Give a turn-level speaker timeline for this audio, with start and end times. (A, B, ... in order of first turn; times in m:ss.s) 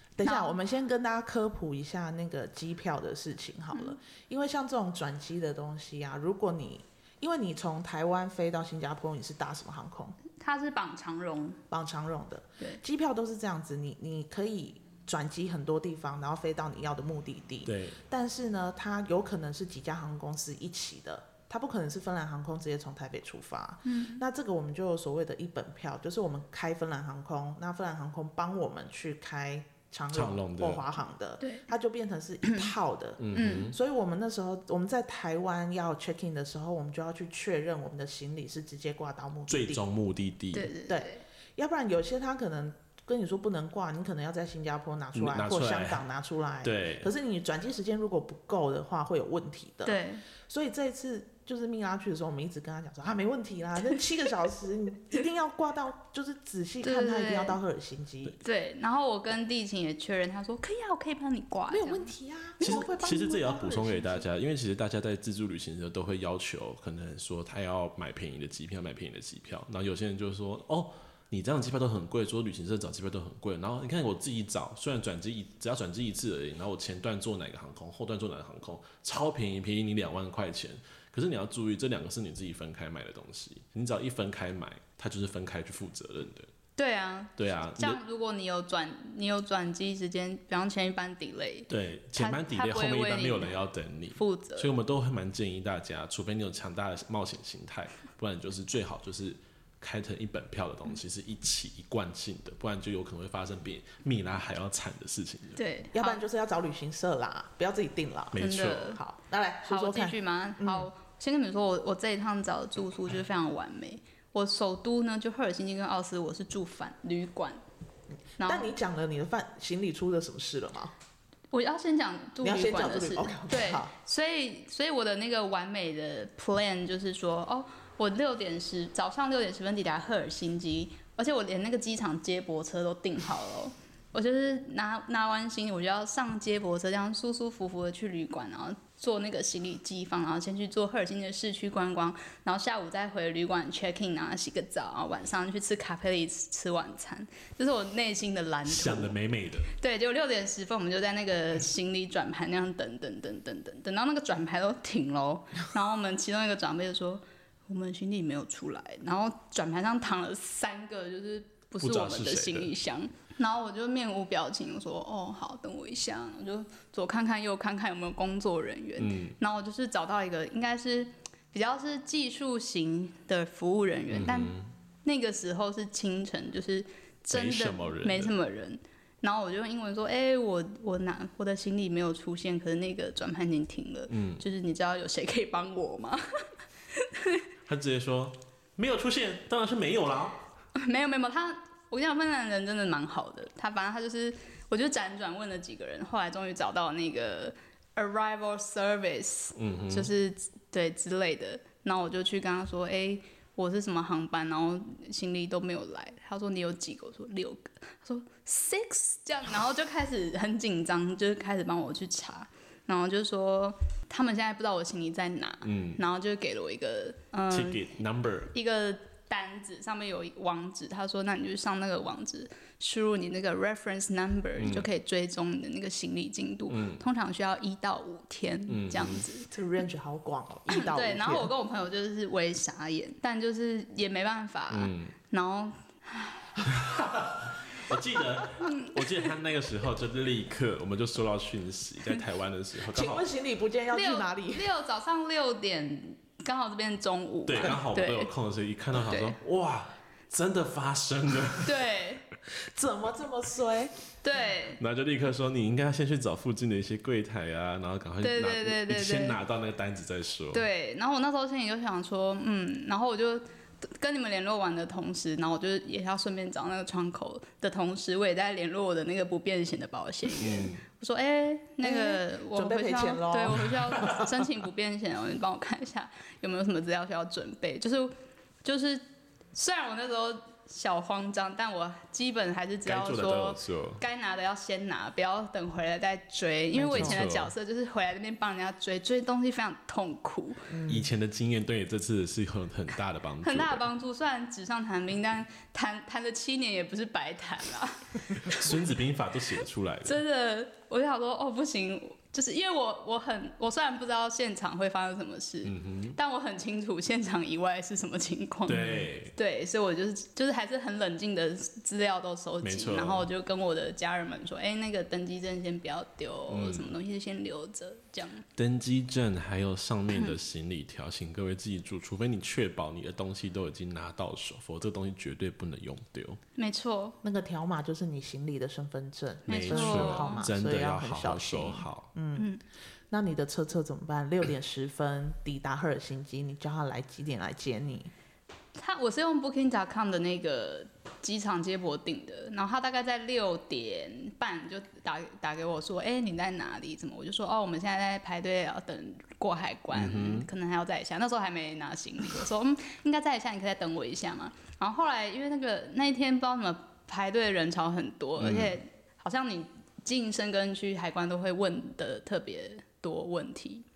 0:00.2-0:10.2 A
0:00.2-0:00.6 B
0:10.4-0:11.6 B
0:11.7-0:39.8 A
0:17.6-0:18.0 C
0:23.8-0:24.2 B
0:30.1-0:30.8 C
0:32.4-0:32.7 B
0:33.2-0:33.7 C
0:33.3-0:33.7 B
0:39.5-0:40.7 C
0:40.5-0:41.2 B
0:40.9-0:58.4 A
0:45.1-0:46.0 C
0:46.6-0:47.1 C
0:49.8-0:50.2 B
0:56.8-0:57.6 B
0:58.4-1:02.9 B
1:01.7-1:04.2 A
1:02.6-1:26.5 C
1:26.8-1:33.6 B
1:27.4-1:28.0 C
1:31.7-1:45.6 C
1:34.1-1:34.7 B
1:45.6-1:46.2 B
1:45.9-1:50.9 A
1:48.3-1:49.0 C
1:48.4-1:49.0 B
1:49.6-1:57.6 B
1:58.4-1:58.7 B
1:58.4-2:00.9 A
2:01.5-2:29.1 B
2:02.4-2:03.9 A
2:28.6-2:29.7 C
2:29.7-2:54.5 B
2:41.8-2:42.7 C
2:49.0-2:49.4 C
2:54.1-2:54.7 C
2:55.0-3:07.4 B
2:57.3-2:58.3 C
3:04.1-3:04.4 C
3:07.6-3:10.4 C
3:10.8-3:37.8 B
3:19.6-3:20.1 C
3:35.6-3:36.0 C
3:37.5-3:38.5 C
3:38.5-3:49.5 B
3:44.6-3:44.9 C
3:46.7-3:47.0 C
3:48.7-3:49.2 C
3:49.5-3:51.5 A
3:50.7-3:56.6 B
3:54.7-3:55.1 C
3:56.6-4:03.2 C
3:58.6-3:59.2 B
4:02.9-4:04.7 A
4:03.9-4:08.3 B
4:07.5-4:11.8 C
4:09.0-4:09.4 B
4:11.6-4:12.2 B
4:12.6-4:13.9 A
4:14.2-4:14.8 B
4:14.8-4:20.7 C
4:18.2-4:19.4 B
4:20.5-4:50.7 B
4:30.3-4:30.8 C
4:31.8-4:34.3 A
4:42.8-4:44.0 C
4:46.7-4:47.2 A
4:46.9-4:47.5 C
4:50.7-4:51.1 A
4:50.9-4:53.8 C
4:53.4-4:58.9 B
4:58.4-5:00.2 C
5:00.0-5:18.4 B
5:05.6-5:06.2 C
5:08.7-5:09.3 C
5:12.6-5:13.3 C
5:16.5-5:16.9 C
5:18.6-5:26.4 C
5:26.6-5:27.2 B
5:27.2-5:32.5 A
5:29.5-5:30.5 B
5:29.5-5:32.1 C
5:33.1-5:38.1 A
5:38.7-6:03.8 B
5:49.9-5:50.5 C
5:58.4-5:58.8 C